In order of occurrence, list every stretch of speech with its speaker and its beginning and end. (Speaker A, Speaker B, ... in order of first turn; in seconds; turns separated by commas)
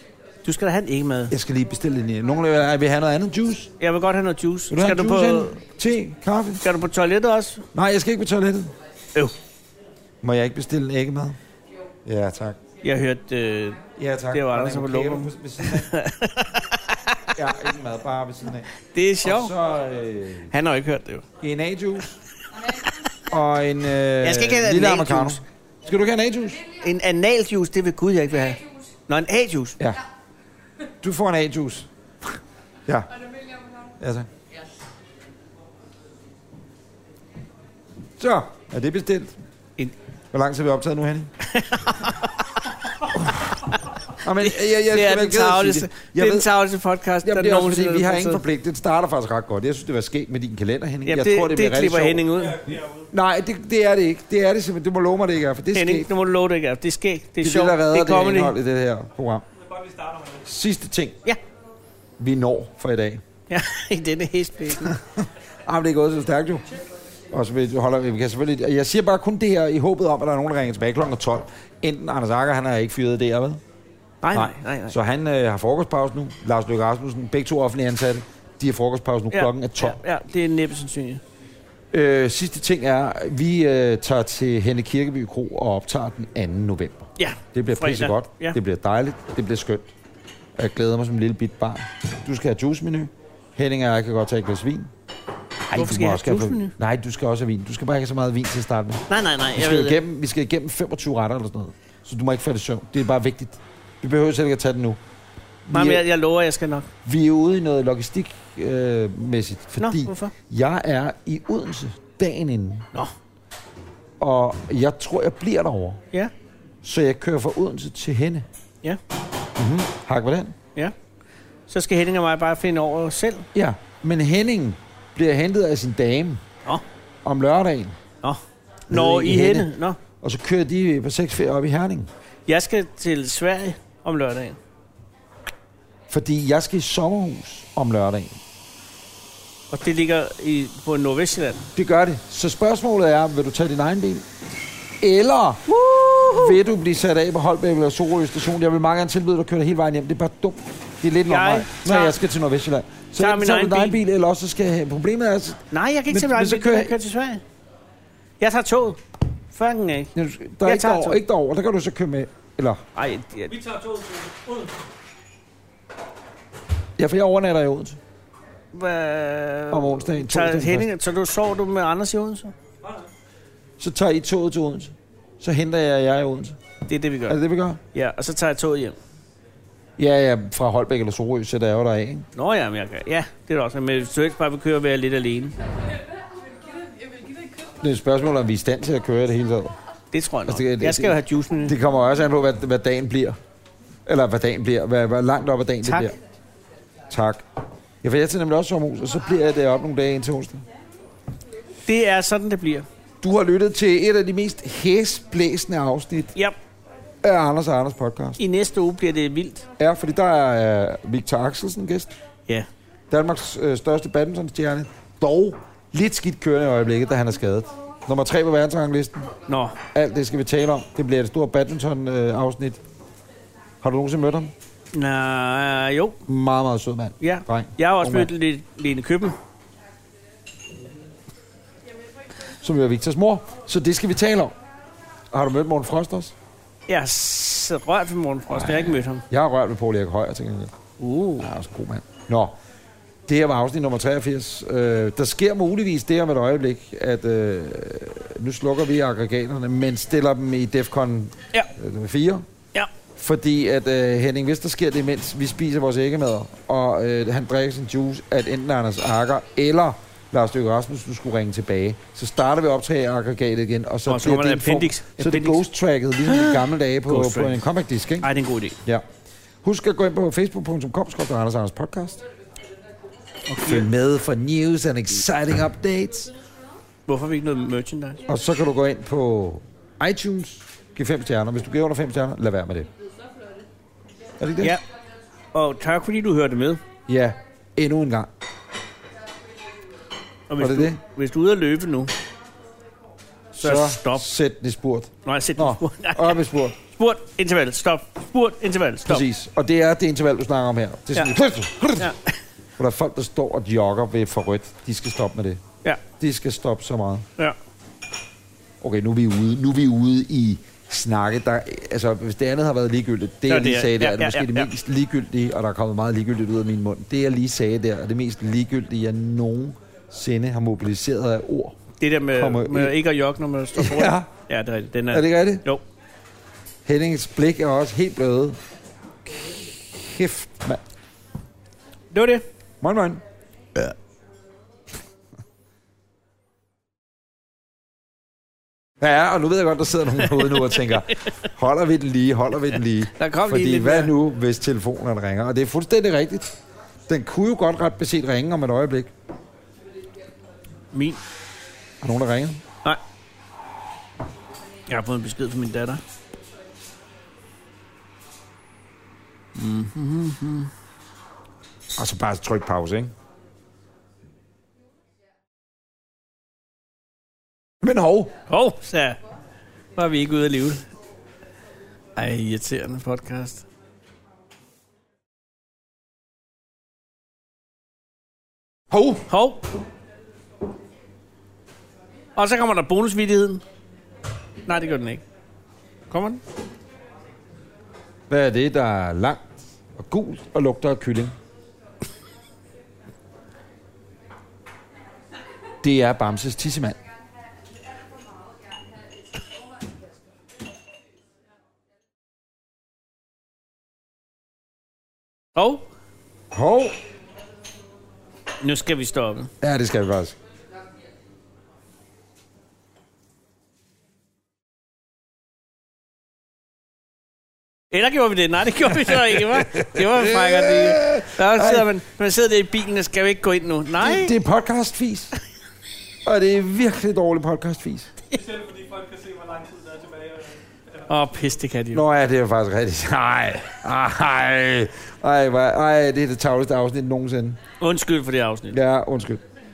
Speaker A: 0.4-1.3, Speaker B: 1.3-3.7, Speaker A: 3.8-5.6, Speaker B: 4.7-6.6, Speaker A: 6.6-7.6, Speaker B: 7.7-8.7, Speaker B: 10.2-11.4, Speaker B: 12.0-12.6, Speaker A: 12.8-17.4, Speaker B: 14.0-15.9, Speaker B: 17.3-18.7, Speaker A: 18.9-19.5, Speaker B: 19.2-20.5, Speaker A: 20.5-21.2, Speaker B: 21.4-22.1, Speaker A: 22.6-23.1, Speaker B: 23.3-26.6, Speaker A: 24.2-25.4, Speaker A: 26.8-29.8, Speaker B: 31.0-33.1, Speaker B: 34.0-34.3, Speaker B: 38.2-39.4, Speaker B: 40.3-41.3, Speaker A: 41.4-42.6, Speaker B: 43.1-46.5, Speaker A: 44.4-48.4, Speaker B: 47.2-52.2, Speaker A: 51.0-52.6, Speaker C: 52.4-53.1, Speaker B: 53.1-56.1, Speaker A: 55.7-58.5, Speaker B: 57.4-59.5, Speaker C: 59.6-60.5, Speaker B: 60.4-61.2, Speaker B: 62.2-63.2, Speaker A: 63.5-65.0, Speaker B: 64.8-66.7, Speaker B: 67.3-73.6, Speaker A: 74.2-74.9, Speaker B: 74.3-80.0, Speaker A: 79.3-81.2, Speaker B: 81.9-89.9, Speaker A: 87.2-88.6, Speaker B: 90.5-94.9, Speaker B: 95.7-105.0, Speaker A: 95.7-96.7, Speaker A: 99.1-100.0, Speaker B: 105.7-106.0, Speaker A: 105.7-106.9, Speaker B: 107.0-112.8, Speaker A: 109.8-110.3, Speaker B: 114.2-116.0, Speaker B: 116.8-118.5, Speaker B: 119.5-120.5, Speaker A: 121.7-123.5, Speaker B: 123.5-126.4, Speaker B: 127.2-128.0, Speaker A: 128.2-130.0, Speaker B: 128.9-129.7, Speaker B: 130.2-132.1, Speaker A: 132.5-134.6, Speaker B: 136.1-138.3, Speaker A: 139.7-141.6, Speaker B: 141.7-144.2, Speaker B: 145.0-145.7, Speaker A: 145.7-146.6, Speaker B: 146.2-157.0, Speaker A: 151.3-152.2, Speaker A: 153.2-154.0, Speaker A: 155.7-157.4, Speaker A: 158.4-160.1, Speaker B: 160.1-162.8, Speaker A: 160.6-161.2, Speaker A: 162.9-163.5, Speaker C: 163.5-164.8, Speaker B: 167.0-168.0, Speaker A: 168.7-172.5, Speaker B: 169.7-170.9, Speaker C: 172.8-173.1, Speaker B: 173.8-176.6, Speaker A: 176.9-177.4, Speaker B: 177.3-177.8, Speaker A: 177.9-178.9, Speaker B: 180.0-182.3, Speaker A: 182.3-185.5, Speaker B: 187.8-189.8, Speaker A: 190.1-191.7, Speaker B: 190.5-193.4, Speaker B: 194.1-196.2, Speaker A: 195.8-196.1, Speaker B: 197.1-197.4, Speaker B: 198.0-200.6, Speaker A: 201.8-202.8, Speaker B: 203.2-206.3, Speaker B: 207.2-208.4, Speaker A: 208.4-209.7, Speaker B: 209.8-212.2, Speaker B: 213.1-219.3, Speaker A: 219.5-219.8, Speaker B: 219.9-222.8, Speaker B: 223.8-224.5, Speaker A: 224.9-226.2, Speaker B: 226.3-228.3, Speaker A: 227.2-229.3, Speaker B: 232.6-234.6, Speaker B: 235.3-236.3, Speaker A: 236.9-239.2, Speaker B: 238.5-240.7, Speaker A: 241.0-241.5, Speaker B: 241.4-242.5, Speaker B: 243.3-252.4, Speaker B: 253.2-268.3, Speaker A: 264.1-265.6, Speaker A: 266.2-267.6, Speaker A: 268.2-268.8, Speaker B: 269.6-272.2, Speaker A: 273.5-273.9, Speaker B: 273.6-276.3, Speaker A: 277.1-278.2, Speaker B: 278.3-282.9, Speaker B: 284.4-284.8, Speaker A: 285.5-286.8, Speaker B: 287.1-288.3, Speaker A: 290.5-292.1, Speaker B: 290.6-291.0, Speaker B: 293.5-296.8, Speaker A: 293.6-294.3, Speaker A: 295.2-299.2, Speaker B: 299.1-302.1, Speaker A: 302.0-302.3, Speaker B: 302.8-305.6, Speaker B: 306.2-307.2, Speaker B: 308.8-321.8, Speaker A: 313.5-314.7, Speaker A: 322.0-325.8, Speaker B: 322.3-322.9, Speaker B: 323.7-324.3, Speaker B: 325.1-325.6, Speaker B: 326.8-328.6, Speaker B: 329.3-330.8, Speaker A: 332.1-332.4, Speaker B: 332.8-333.2, Speaker B: 339.0-346.5, Speaker A: 343.1-344.1, Speaker B: 347.1-349.1, Speaker A: 350.9-351.2, Speaker B: 352.0-352.6, Speaker A: 354.9-356.0, Speaker A: 359.6-360.7, Speaker B: 361.9-363.1, Speaker B: 367.8-368.3, Speaker A: 368.5-369.2, Speaker A: 369.9-370.8, Speaker A: 372.1-373.6, Speaker B: 378.9-379.2, Speaker A: 379.3-379.6, Speaker A: 382.4-383.6, Speaker A: 384.7-385.2, Speaker A: 386.1-386.4, Speaker B: 388.3-391.4, Speaker B: 395.8-397.0, Speaker A: 405.5-405.9, Speaker B: 406.5-406.9, Speaker A: 408.6-409.5, Speaker B: 409.6-410.4, Speaker A: 417.9-424.3, Speaker B: 419.5-421.9, Speaker B: 424.0-425.3, Speaker B: 426.2-428.1, Speaker C: 428.3-431.0, Speaker A: 431.1-432.0, Speaker B: 431.9-437.6, Speaker A: 437.8-438.8, Speaker B: 438.7-439.4